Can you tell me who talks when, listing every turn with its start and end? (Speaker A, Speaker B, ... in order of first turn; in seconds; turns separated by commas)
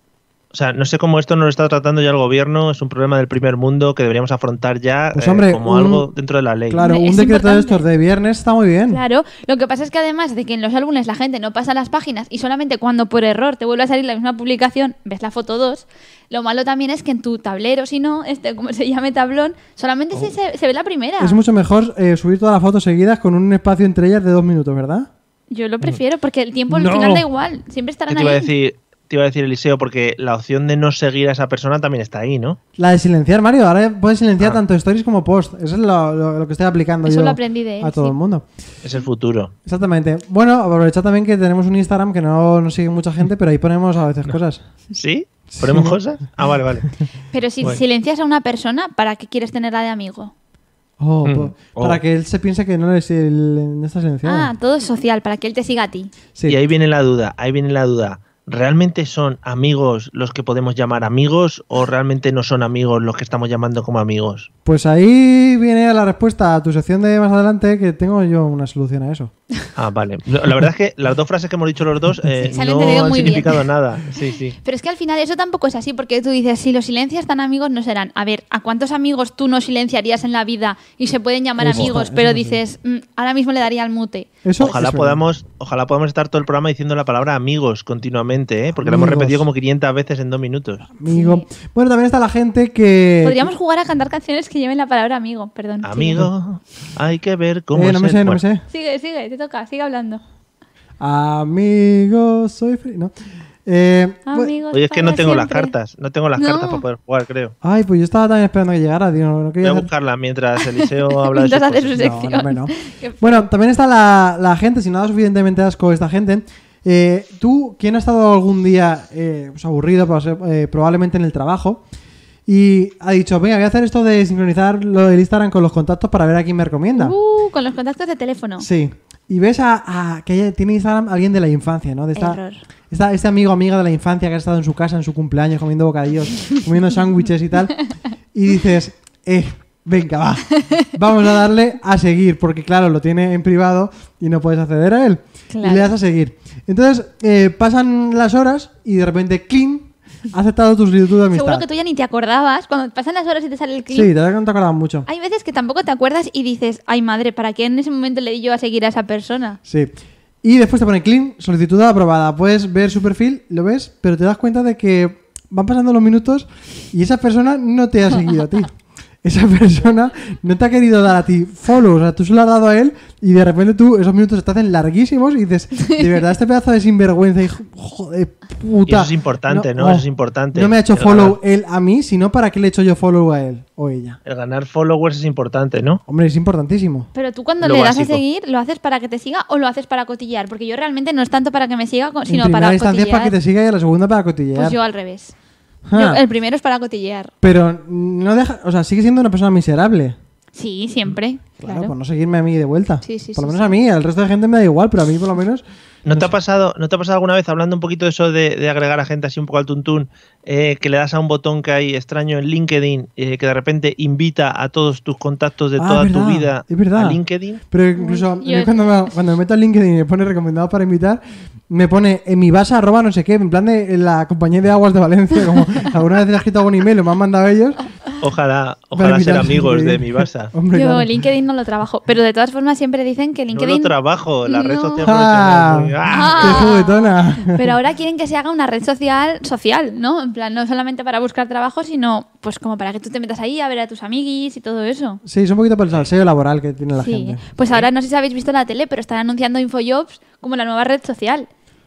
Speaker A: 0.5-6.9, Speaker B: 5.1-6.1, Speaker B: 6.7-9.0, Speaker C: 6.8-7.8, Speaker C: 8.9-21.4, Speaker B: 21.2-25.1, Speaker C: 25.5-28.5, Speaker B: 26.8-27.2, Speaker A: 26.8-27.2, Speaker A: 28.1-32.6, Speaker B: 32.8-38.5, Speaker C: 37.0-38.1, Speaker A: 38.8-39.5, Speaker B: 39.6-44.6, Speaker A: 44.9-46.9, Speaker B: 45.5-46.0, Speaker C: 47.3-50.3, Speaker B: 51.0-54.5, Speaker A: 51.2-52.0, Speaker C: 54.2-56.1, Speaker A: 56.5-64.5, Speaker B: 64.6-69.3, Speaker A: 69.8-74.6, Speaker C: 72.4-73.5, Speaker C: 74.6-84.8, Speaker B: 81.6-82.6, Speaker B: 84.4-85.2, Speaker A: 84.6-90.8, Speaker B: 88.8-89.5, Speaker B: 90.9-93.5, Speaker C: 91.1-91.5, Speaker C: 93.2-96.2, Speaker A: 95.8-98.4, Speaker B: 97.7-98.6, Speaker C: 98.7-100.2, Speaker B: 101.0-103.1, Speaker B: 103.6-104.5, Speaker C: 104.3-105.7, Speaker A: 104.7-107.5, Speaker C: 106.4-106.8, Speaker B: 107.6-109.9, Speaker A: 109.6-112.0, Speaker C: 110.7-113.5, Speaker B: 111.9-121.8, Speaker B: 122.5-127.2, Speaker C: 127.0-128.7, Speaker B: 128.6-151.6, Speaker C: 132.1-132.6, Speaker C: 145.5-145.9, Speaker C: 151.3-154.1, Speaker B: 153.9-155.1, Speaker C: 155.1-159.6, Speaker B: 159.7-184.2, Speaker C: 175.8-176.1, Speaker A: 178.8-181.4, Speaker A: 184.2-186.0, Speaker B: 186.1-187.1, Speaker C: 187.1-193.3, Speaker A: 187.6-188.2, Speaker B: 192.3-194.8, Speaker C: 194.5-195.3, Speaker B: 195.9-196.2, Speaker C: 195.9-197.3, Speaker B: 197.4-200.2, Speaker C: 200.5-201.9, Speaker B: 201.6-205.6, Speaker C: 203.0-203.8, Speaker A: 206.0-217.6, Speaker B: 215.8-227.8, Speaker C: 217.9-219.1, Speaker A: 228.2-230.5, Speaker B: 228.9-231.2, Speaker C: 230.7-233.9, Speaker A: 233.5-236.7, Speaker C: 234.4-235.0, Speaker B: 235.0-237.7, Speaker C: 236.1-245.2, Speaker B: 245.2-247.4, Speaker C: 247.0-251.5